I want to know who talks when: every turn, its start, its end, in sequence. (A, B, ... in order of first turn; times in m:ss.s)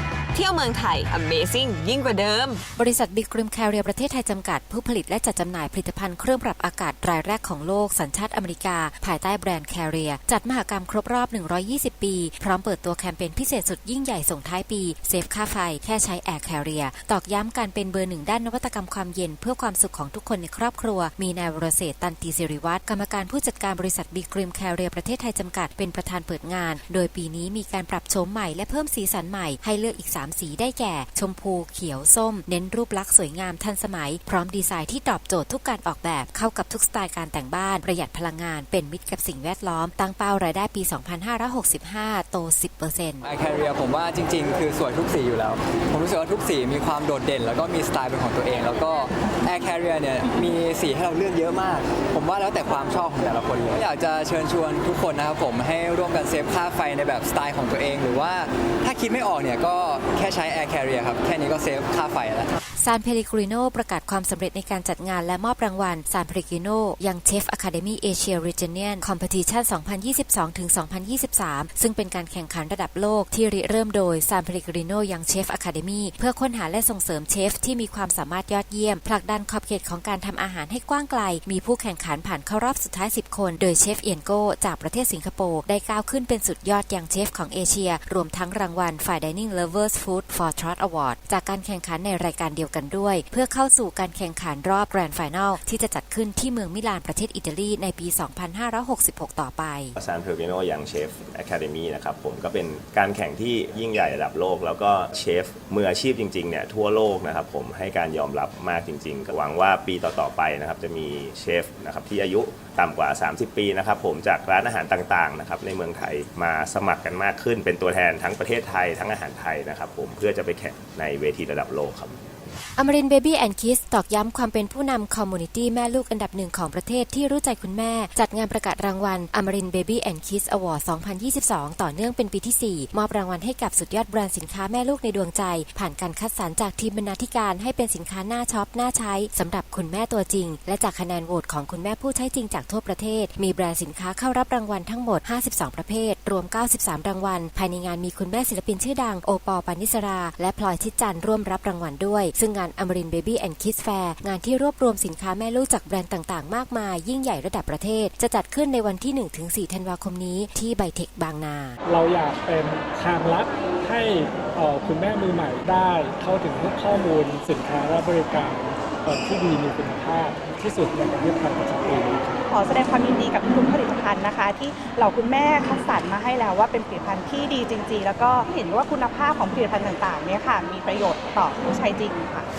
0:00.3-0:02.6 A
0:02.8-0:43.2 B
0:43.2-1:02.6 C
1:02.8-1:40.0 B
1:40.0-2:02.2 D
2:02.8-2:41.8 B
2:41.9-2:52.4 E
2:52.4-3:02.5 F